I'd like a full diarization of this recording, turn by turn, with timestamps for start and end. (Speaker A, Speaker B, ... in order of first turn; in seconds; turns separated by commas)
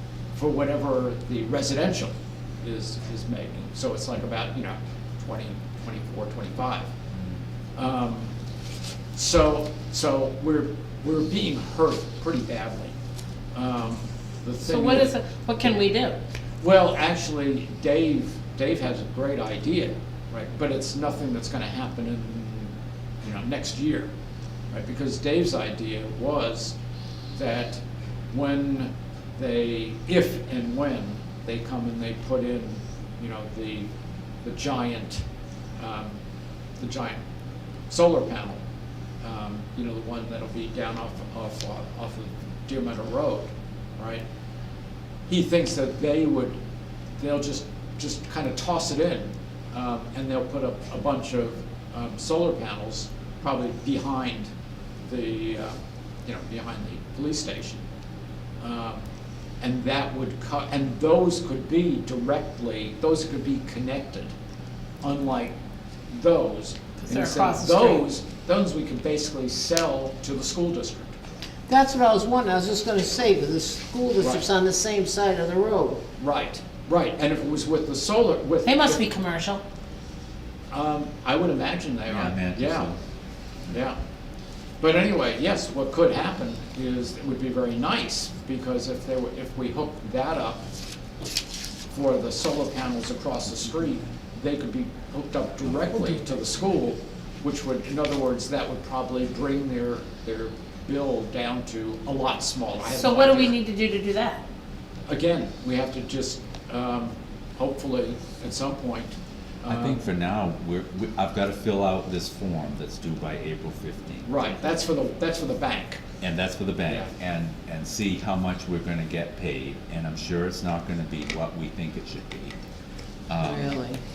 Speaker A: 0.3-6.9, Speaker A: 7.8-8.3, Speaker A: 9.2-12.9, Speaker A: 13.5-15.2, Speaker B: 14.7-16.2, Speaker A: 16.6-24.1, Speaker A: 24.7-26.8, Speaker A: 27.3-33.9, Speaker A: 34.4-35.2, Speaker A: 35.8-36.2, Speaker A: 36.8-37.2, Speaker A: 37.9-38.6, Speaker A: 39.2-44.2, Speaker A: 45.3-46.5, Speaker A: 47.2-54.5, Speaker A: 55.0-57.8, Speaker A: 58.6-59.0, Speaker A: 59.6-64.3, Speaker A: 65.0-65.6, Speaker A: 66.1-71.1, Speaker B: 67.0-68.0, Speaker C: 71.7-76.0, Speaker A: 76.2-79.0, Speaker B: 78.7-79.6, Speaker A: 80.7-82.9, Speaker D: 82.1-83.0, Speaker A: 83.7-84.0, Speaker A: 84.8-90.6, Speaker A: 91.9-103.6, Speaker B: 102.8-104.4, Speaker A: 105.1-110.0, Speaker D: 109.7-114.3, Speaker A: 114.2-116.0, Speaker D: 116.2-122.5, Speaker D: 123.3-123.8, Speaker C: 123.4-124.0